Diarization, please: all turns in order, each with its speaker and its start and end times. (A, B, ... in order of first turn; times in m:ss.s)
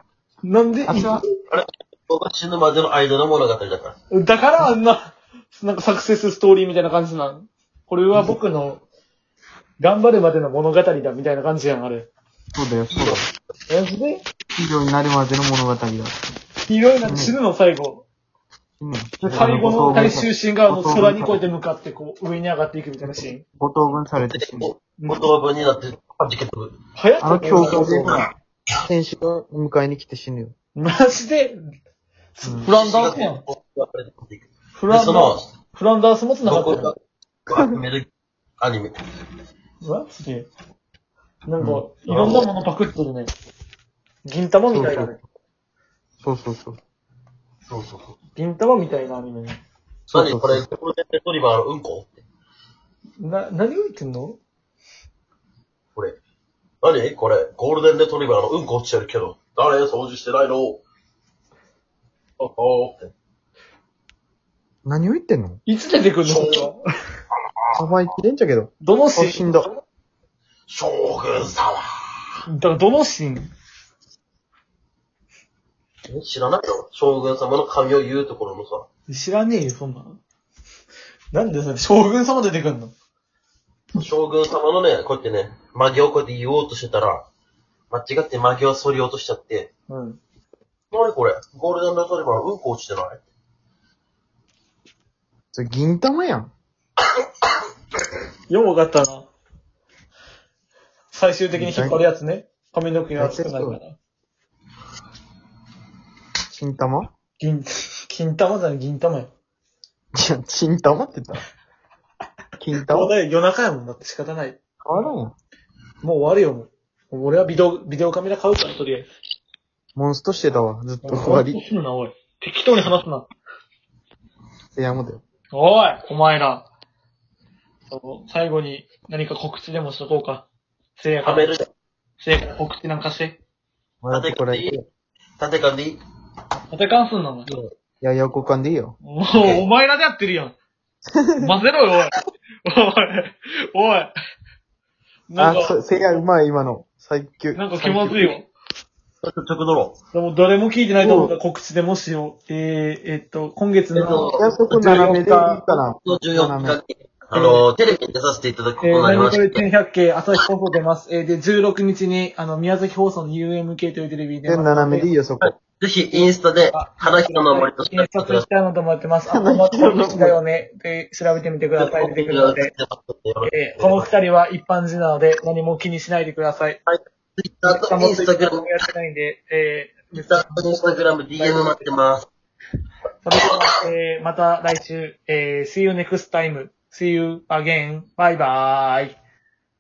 0:00.4-0:01.2 A
0:00.9-0:01.1 B
0:01.5-0:04.0 C
0:04.1-0:08.8 A
0:09.8-0:12.1 A
0:12.5-0:13.3 B
0:12.9-0:13.2 C
0:13.7-0:14.2 A
0:14.6-0:16.2 B
0:16.6-0:18.0 A
0:17.0-0:17.4 B
0:18.8-0:21.4 B
0:19.2-0:23.4 A
0:23.6-0:24.7 B
0:24.2-0:26.8 C
0:25.0-0:25.3 A
0:27.0-0:28.3 A
0:27.2-0:28.2 B
0:27.6-0:28.2 C
0:28.8-0:30.5 B
0:30.8-0:31.6 A
0:32.3-0:33.4 A
0:32.4-0:32.7 B
0:32.7-0:35.5 C
0:34.8-0:36.9 A
0:36.4-0:36.9 C
0:37.5-0:38.1 C
0:38.6-0:38.9 C
0:39.8-0:40.5 A
0:41.4-0:43.3 A
0:41.6-0:41.8 B
0:42.1-0:42.4 C
0:44.2-0:45.2 A
0:44.7-0:45.1 B
0:46.2-0:46.8 B
0:47.6-0:48.1 C
0:48.4-0:49.6 A
0:50.1-0:52.2 C
0:50.1-0:50.6 B
0:53.2-0:54.4 A
0:56.8-1:00.8 C
1:02.4-1:03.1 C
1:04.8-1:05.6 B
1:05.6-1:06.8 A
1:06.2-1:06.7 C
1:07.7-1:09.7 B
1:08.8-1:09.7 A
1:10.7-1:11.8 C
1:12.4-1:13.5 A
1:16.1-1:18.8 C
1:19.1-1:20.2 A
1:21.3-1:22.9 A
1:23.9-1:27.2 C
1:27.9-1:29.7 C
1:29.9-1:30.2 A
1:30.9-1:33.2 C
1:35.5-1:36.5 B
1:38.5-1:39.3 A
1:41.1-1:44.0 A
1:41.5-1:42.0 B
1:43.2-1:43.8 B
1:46.5-1:47.1 B
1:47.4-1:49.3 A
1:50.1-1:51.4 B
1:52.6-1:53.1 B
1:52.9-1:54.6 A
1:54.8-1:55.3 B
1:56.0-1:59.1 A
1:59.9-2:01.6 B
2:01.0-2:03.3 A
2:04.8-2:05.2 B
2:05.5-2:06.7 A
2:07.9-2:10.4 A
2:11.0-2:11.5 A
2:11.2-2:11.7 C
2:12.2-2:13.4 A
2:14.0-2:14.8 B
2:14.1-2:14.7 C
2:15.4-2:16.0 C
2:16.7-2:17.5 A
2:18.0-2:19.0 B
2:19.0-2:20.5 A
2:19.3-2:19.6 C
2:21.1-2:21.5 B
2:21.4-2:22.1 A
2:22.6-2:24.1 A
2:25.3-2:25.8 A
2:25.4-2:28.2 B
2:27.5-2:28.5 A
2:27.8-2:28.4 C
2:29.2-2:30.0 C
2:30.1-2:35.6 A
2:31.0-2:31.4 B
2:33.9-2:34.4 C
2:34.4-2:36.8 B
2:36.0-2:39.6 C
2:37.3-2:37.6 A
2:38.8-2:45.1 A
2:44.4-2:45.5 B
2:45.4-2:48.4 C
2:46.2-2:52.7 A
2:49.3-2:50.4 B
2:51.8-2:54.1 C
2:53.4-2:56.8 A
2:56.9-2:58.7 C
2:57.6-3:00.4 A
3:00.1-3:02.3 C
3:01.4-3:01.9 A
3:03.2-3:09.2 A